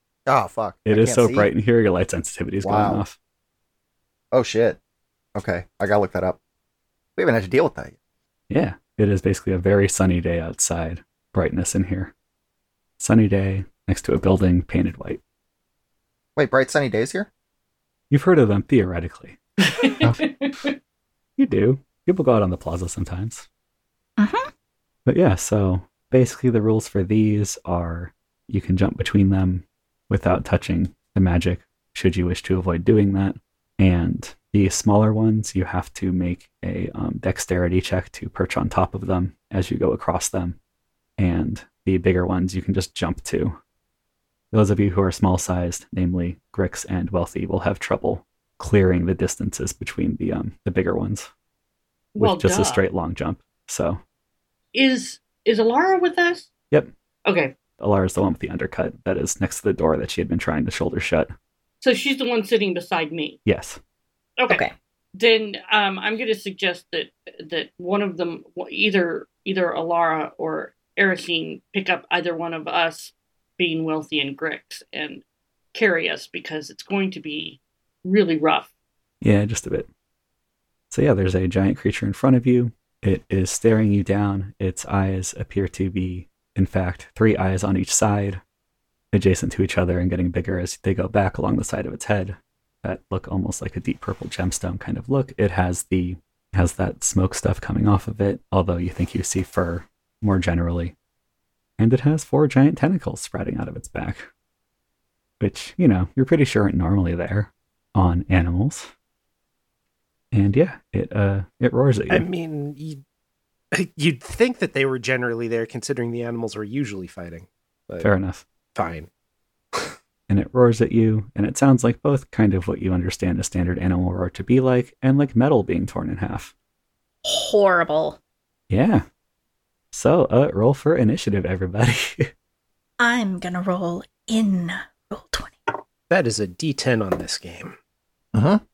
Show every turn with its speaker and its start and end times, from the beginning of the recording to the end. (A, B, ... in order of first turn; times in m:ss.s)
0:00.3-0:01.5 A
0:00.8-0:03.2 B
0:02.6-0:03.0 A
0:04.3-0:04.8 A
0:05.4-0:06.4 A
0:07.2-0:07.9 A
0:08.5-0:12.1 B
0:13.0-0:15.2 B
0:16.4-0:17.3 A
0:18.1-0:20.1 B
0:19.8-0:20.8 C
0:21.4-0:23.4 B
0:24.2-0:24.5 D
0:25.1-0:40.6 B
0:41.2-0:43.6 B
0:44.5-0:51.3 B
0:52.1-0:52.8 C
0:52.2-0:54.0 B
0:54.7-0:56.5 C
0:57.2-0:57.6 C
0:57.8-1:01.3 B
1:01.8-1:03.4 C
1:03.4-1:03.8 B
1:05.2-1:15.2 C
1:15.7-1:18.7 C
1:19.2-1:19.9 B
1:20.9-1:28.4 B
1:29.1-1:40.9 B
1:41.8-1:44.3 B
1:45.4-1:48.9 B
1:50.3-1:52.2 B
1:52.1-1:53.0 E
1:53.7-1:58.1 E
1:58.0-1:58.4 B
1:58.8-1:59.1 E
2:00.3-2:06.5 B
2:07.2-2:08.2 D
2:08.7-2:09.0 B
2:09.9-2:12.3 B
2:13.0-2:15.7 D
2:16.1-2:17.8 E
2:18.3-2:18.6 A